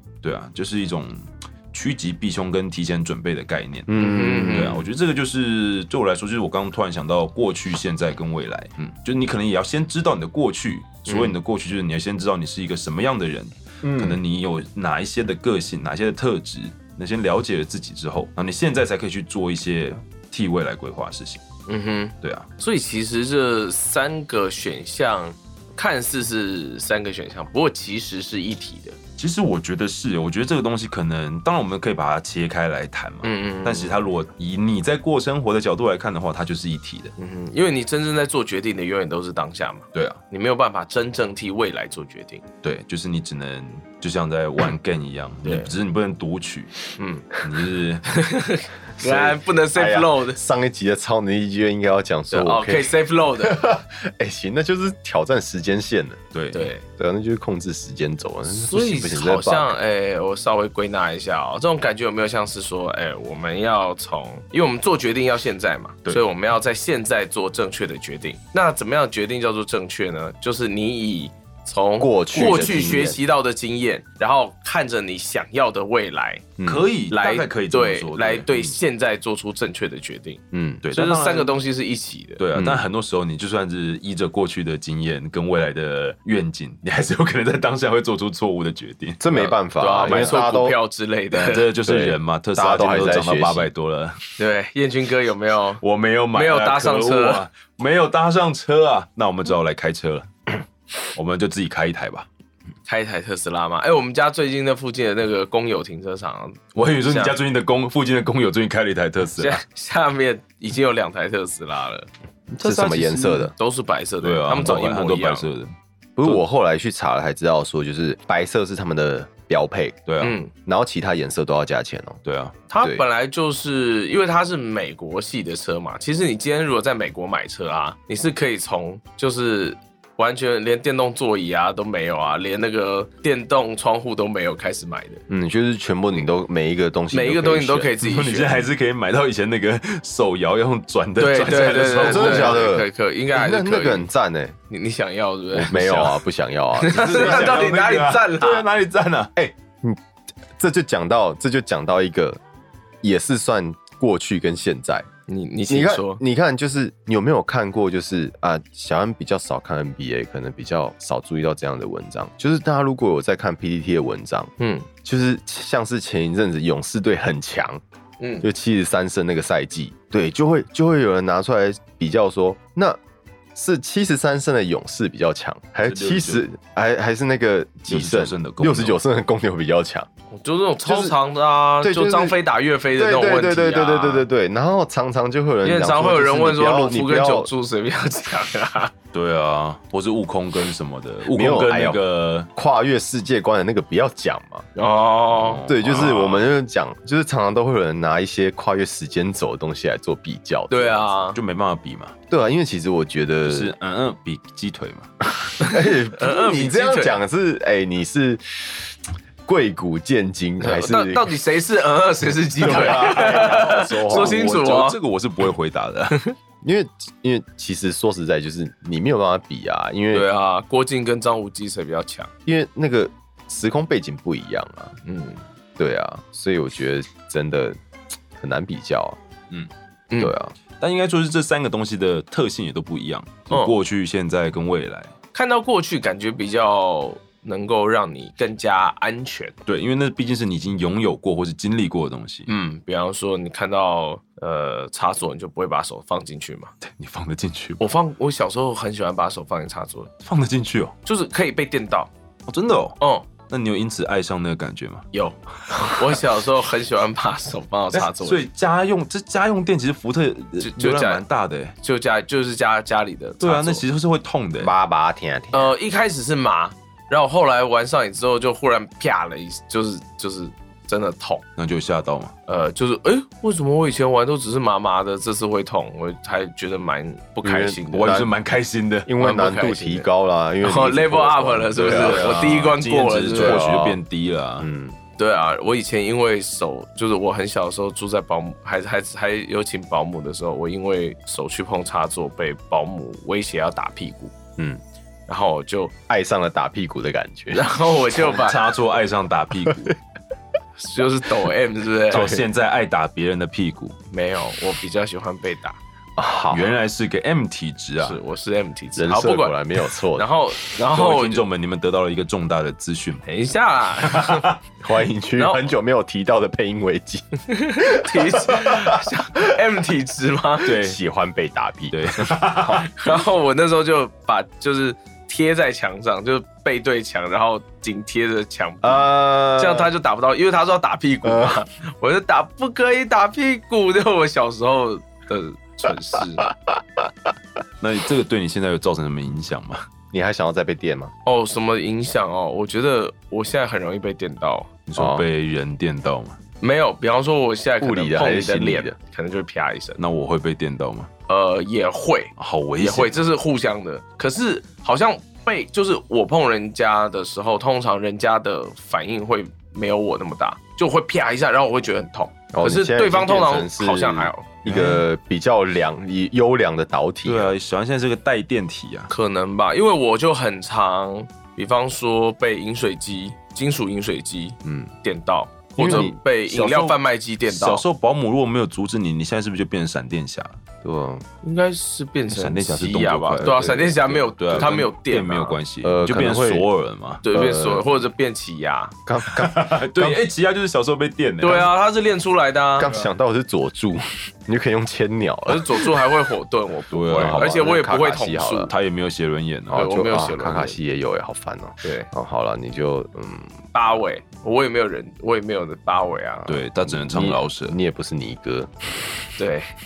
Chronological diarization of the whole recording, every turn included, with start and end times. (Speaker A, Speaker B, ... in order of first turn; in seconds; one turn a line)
Speaker A: 0.2-21.4
Speaker B: 3.9-4.8
Speaker C: 4.0-4.8
Speaker C: 11.1-11.3
Speaker B: 13.8-14.2
Speaker C: 21.7-29.0
Speaker A: 22.2-22.5
Speaker A: 29.2-37.1
Speaker C: 33.2-34.0
Speaker C: 37.2-42.4
Speaker A: 39.9-40.2
Speaker A: 42.6-46.8
Speaker C: 45.4-45.7
Speaker C: 47.0-47.3
Speaker A: 47.4-48.1
Speaker C: 48.1-50.4
Speaker B: 49.0-56.2
Speaker C: 52.3-53.6
Speaker A: 56.3-56.7
Speaker C: 56.5-56.8
Speaker B: 57.0-59.7
Speaker C: 58.5-76.5
Speaker B: 72.0-73.2
Speaker A: 72.3-72.8
Speaker B: 76.6-76.9
Speaker A: 76.6-78.6
Speaker C: 77.1-82.4
Speaker B: 80.5-80.8
Speaker A: 80.8-81.6
Speaker A: 82.4-89.2
Speaker B: 82.5-82.8
Speaker B: 89.2-90.8
Speaker C: 89.3-91.7
Speaker A: 90.0-90.4
Speaker A: 91.3-94.3
Speaker B: 91.8-93.7
Speaker C: 94.4-95.8
Speaker A: 95.8-100.3
Speaker C: 96.3-97.4
Speaker A: 101.1-102.3
Speaker C: 102.8-107.4
Speaker A: 106.7-109.6
Speaker C: 109.4-112.1
Speaker A: 112.5-113.5
Speaker B: 112.6-113.5
Speaker C: 113.5-115.5
Speaker A: 114.2-115.7
Speaker B: 116.2-120.0
Speaker A: 120.0-120.4
Speaker C: 120.2-120.5
Speaker B: 120.6-122.2
Speaker A: 122.2-122.6
Speaker C: 122.7-135.2
Speaker B: 135.3-137.9
Speaker C: 137.1-138.7
Speaker A: 138.0-142.7
Speaker C: 141.2-144.1
Speaker B: 142.0-144.6
Speaker C: 144.7-146.2
Speaker B: 145.5-147.7
Speaker C: 146.8-148.7
Speaker A: 146.9-149.3
Speaker B: 149.3-150.0
Speaker B: 150.6-152.4
Speaker B: 153.0-155.1
Speaker C: 155.3-156.2
Speaker B: 155.7-164.5
Speaker C: 164.6-164.9
Speaker B: 165.0-167.8
Speaker C: 168.2-168.5
Speaker B: 168.4-173.0
Speaker B: 173.5-180.1
Speaker A: 175.8-176.4
Speaker A: 177.9-179.0
Speaker C: 180.3-184.3
Speaker B: 180.8-181.2
Speaker B: 181.8-182.4
Speaker B: 182.9-187.5
Speaker C: 185.6-188.9
Speaker A: 189.1-192.5
Speaker B: 191.3-192.0
Speaker B: 192.5-194.7
Speaker C: 194.7-196.0
Speaker A: 195.3-196.5
Speaker B: 195.7-201.1
Speaker C: 200.7-201.4
Speaker A: 201.3-202.1
Speaker B: 202.3-203.7
Speaker A: 203.5-205.1
Speaker B: 205.6-211.3
Speaker C: 205.6-207.2
Speaker C: 210.6-215.0
Speaker B: 212.6-214.4
Speaker A: 212.7-216.2
Speaker B: 216.6-220.3
Speaker C: 220.1-222.3
Speaker B: 222.4-224.9
Speaker C: 225.0-225.4
Speaker B: 225.8-227.8
Speaker B: 228.4-229.2
Speaker B: 230.2-230.5
Speaker A: 230.8-235.1
Speaker C: 235.3-239.5
Speaker A: 239.7-242.5
Speaker C: 242.5-246.7
Speaker A: 246.8-247.8
Speaker C: 247.8-250.1
Speaker A: 250.2-250.9
Speaker C: 251.0-252.1
Speaker A: 252.5-255.1
Speaker C: 253.0-253.3
Speaker C: 255.1-258.4
Speaker A: 255.7-256.1
Speaker A: 257.9-261.8
Speaker C: 260.6-261.2
Speaker C: 261.8-263.8
Speaker A: 263.4-264.7
Speaker B: 264.6-265.7
Speaker C: 265.5-271.4
Speaker A: 271.6-272.3
Speaker C: 272.5-278.2
Speaker B: 277.4-278.3
Speaker A: 277.9-279.1
Speaker B: 279.0-282.6
Speaker C: 279.2-280.1
Speaker C: 280.6-283.6
Speaker A: 281.8-284.7
Speaker B: 283.3-284.0
Speaker B: 284.6-285.0
Speaker C: 285.2-294.3
Speaker C: 295.3-295.9
Speaker B: 296.1-297.7
Speaker C: 297.5-298.6
Speaker A: 298.2-299.9
Speaker C: 300.8-302.3
Speaker A: 302.1-304.0
Speaker B: 302.1-302.4
Speaker C: 304.1-305.8
Speaker B: 306.1-306.7
Speaker A: 306.5-308.2
Speaker C: 308.0-309.6
Speaker B: 308.9-310.3
Speaker C: 310.1-311.4
Speaker A: 310.8-313.2
Speaker C: 313.2-314.6
Speaker A: 314.0-314.5
Speaker B: 314.8-319.0
Speaker C: 315.4-315.6
Speaker C: 317.5-320.7
Speaker A: 320.6-321.0
Speaker B: 320.7-322.9
Speaker A: 321.9-322.9
Speaker C: 322.9-336.5
Speaker B: 328.8-329.9
Speaker B: 331.2-331.6
Speaker A: 337.8-339.9
Speaker B: 340.1-341.1
Speaker C: 341.2-344.7
Speaker A: 344.9-346.4
Speaker B: 344.9-345.2
Speaker C: 346.6-350.0
Speaker B: 347.8-348.9
Speaker A: 350.0-351.1
Speaker C: 351.3-364.5
Speaker A: 352.4-353.3
Speaker B: 362.5-367.5
Speaker A: 364.6-365.0
Speaker A: 367.2-369.1
Speaker C: 369.1-377.8
Speaker B: 374.6-374.9
Speaker B: 375.8-376.1
Speaker A: 375.8-380.6
Speaker B: 380.8-381.2
Speaker C: 381.4-385.6
Speaker A: 382.3-387.2
Speaker B: 383.4-383.9
Speaker B: 385.8-386.7
Speaker C: 387.2-389.0
Speaker B: 387.3-387.9
Speaker B: 389.1-390.2
Speaker A: 389.3-391.7
Speaker C: 391.4-393.1
Speaker B: 392.8-395.9
Speaker C: 395.5-398.7
Speaker A: 396.9-397.6
Speaker B: 397.1-398.7
Speaker A: 398.7-399.9
Speaker B: 399.7-403.6
Speaker C: 399.7-400.8
Speaker C: 401.8-402.1
Speaker C: 403.7-406.6
Speaker A: 406.4-407.8
Speaker B: 406.8-408.7
Speaker C: 409.4-409.7